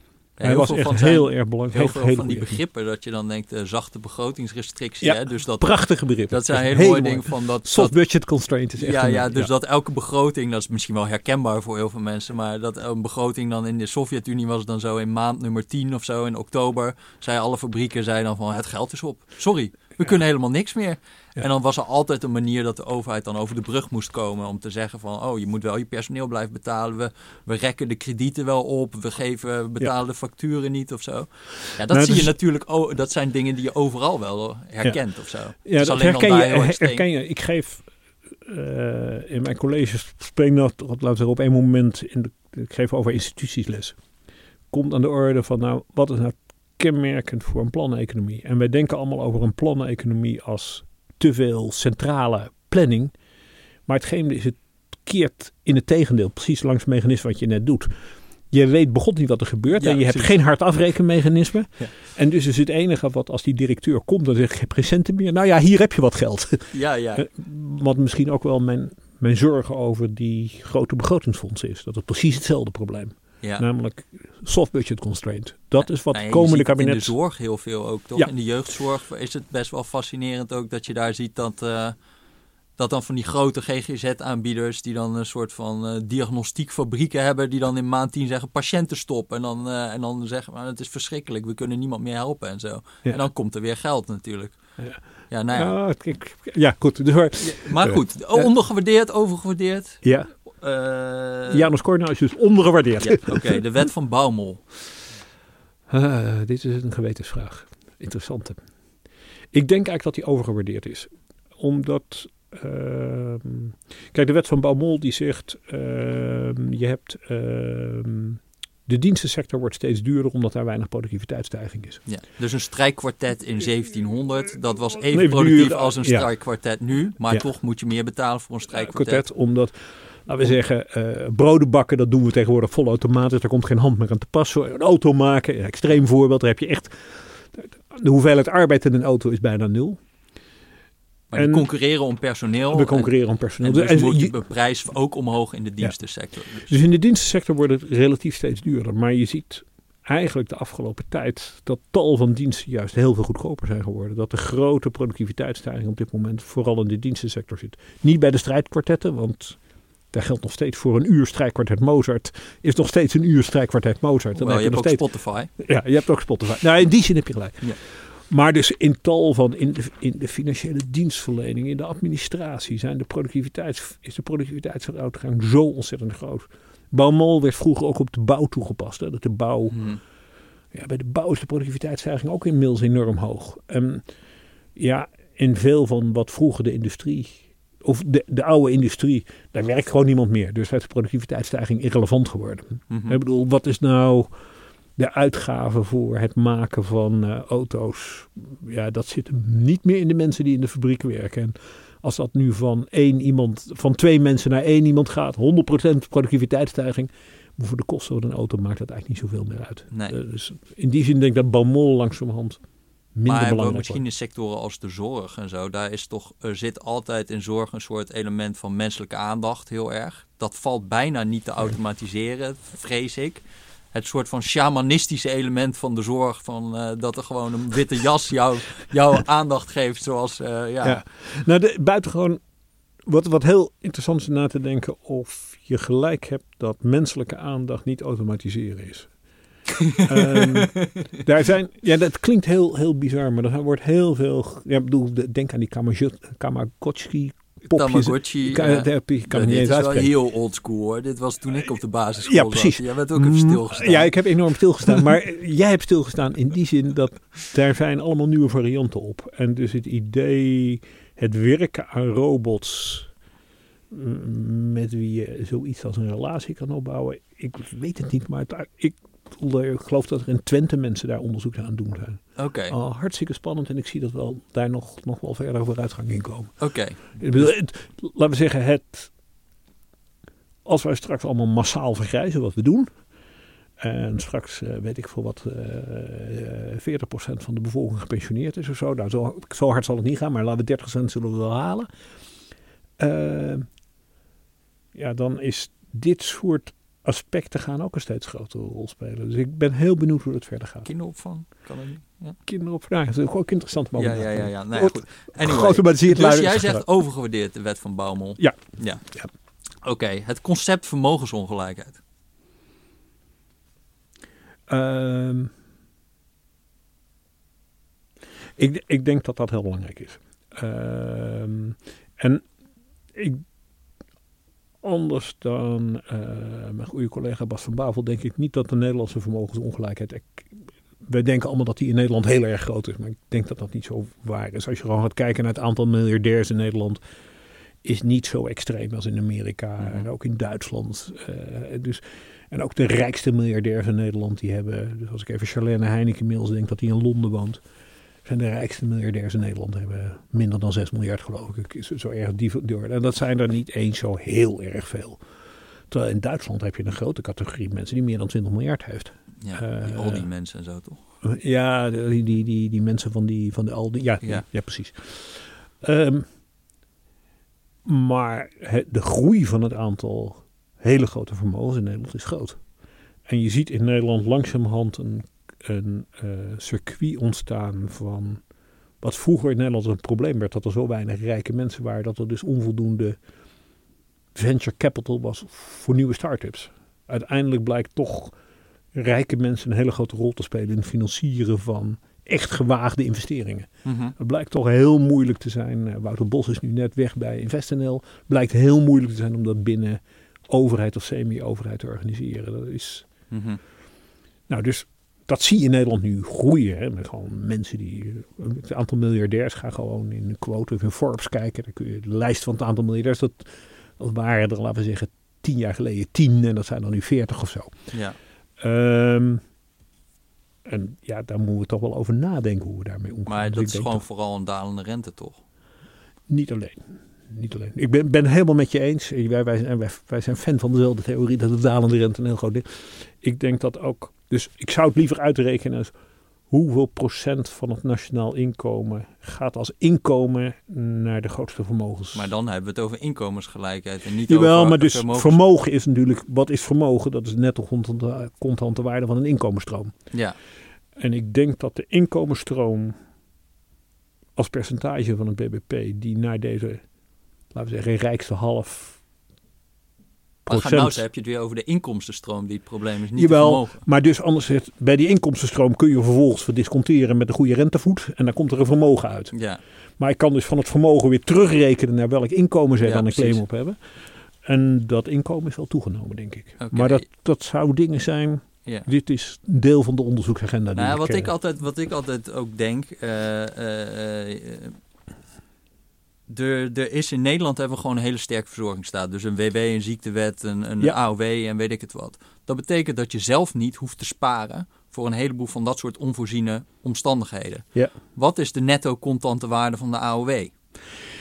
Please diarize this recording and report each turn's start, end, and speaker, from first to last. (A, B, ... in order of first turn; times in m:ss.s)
0:00.4-0:05.8 A
0:00.4-0:02.6 B
0:05.0-0:09.5 B
0:06.3-0:07.9 A
0:08.8-0:37.0 A
0:31.9-0:32.3 B
0:35.6-0:37.8 B
0:38.4-0:44.0 B
0:44.7-0:53.1 B
0:53.9-0:57.9 B
0:58.5-1:17.2 B
0:59.7-1:00.4 A
1:06.7-1:07.2 A
1:15.8-1:22.0 A
1:22.8-1:34.6 A
1:35.3-1:35.7 A
1:35.5-1:38.5 B
1:37.4-1:41.7 A
1:40.0-1:40.3 B
1:41.5-1:43.6 B
1:43.0-1:44.6 A
1:45.9-1:48.6 B
1:49.5-2:02.0 B
2:02.0-2:09.2 A
2:05.1-2:06.3 B
2:08.7-2:20.0 B
2:21.3-2:26.7 A
2:21.3-2:21.7 B
2:22.7-2:24.4 B
2:26.6-2:39.6 B
2:40.1-2:45.0 B
2:44.4-2:45.5 A
2:45.6-2:59.8 B
2:59.7-3:00.0 A
3:00.7-3:04.0 B
3:04.8-3:14.3 B
3:12.9-3:13.2 A
3:15.0-3:32.6 B
3:29.9-3:30.2 A
3:33.1-3:34.0 B
3:33.2-3:51.0 A
3:50.8-3:52.4 B
3:53.0-3:59.1 B
3:59.7-4:01.2 A
4:00.0-4:10.1 B
4:07.7-4:14.1 A
4:12.2-4:23.1 B
4:23.9-4:39.1 B
4:32.4-4:32.7 A
4:36.6-4:37.2 A
4:40.6-4:42.9 B
4:43.8-4:51.9 B
4:53.0-4:53.7 B
4:54.9-5:00.9 B
5:00.8-5:02.4 A
5:02.4-5:06.8 B
5:04.0-5:09.1 A
5:08.4-5:09.3 B
5:09.8-5:12.0 A
5:14.7-5:15.5 B
5:18.6-5:22.4 B
5:23.1-5:23.4 B
5:24.8-5:37.0 B
5:37.8-5:47.6 B
5:39.8-5:40.1 A
5:48.2-5:55.2 B
5:55.9-6:00.2 B
5:59.4-6:01.0 A
6:01.2-6:06.3 B
6:07.8-6:12.6 B
6:13.3-6:18.4 B
6:19.0-6:23.2 B
6:24.3-6:28.3 B
6:28.9-6:43.1 B
6:33.8-6:34.1 A
6:43.3-6:43.6 A
6:44.5-6:57.8 B
6:57.9-6:58.2 A
6:58.6-6:59.4 B
7:00.6-7:04.0 B
7:03.2-7:05.4 A
7:06.3-7:15.9 B
7:16.5-7:22.3 B
7:22.1-7:25.4 A
7:24.3-7:29.9 B
7:31.0-7:32.9 B
7:34.4-7:36.8 B
7:37.5-7:39.0 B
7:40.4-7:43.8 A
7:40.5-7:41.0 B
7:43.1-7:49.3 B
7:49.3-7:49.6 A
7:50.0-7:53.8 B
7:52.8-7:53.4 A
7:54.4-8:01.3 B
7:56.6-7:57.0 A
8:00.7-8:04.8 A
8:06.3-8:20.5 A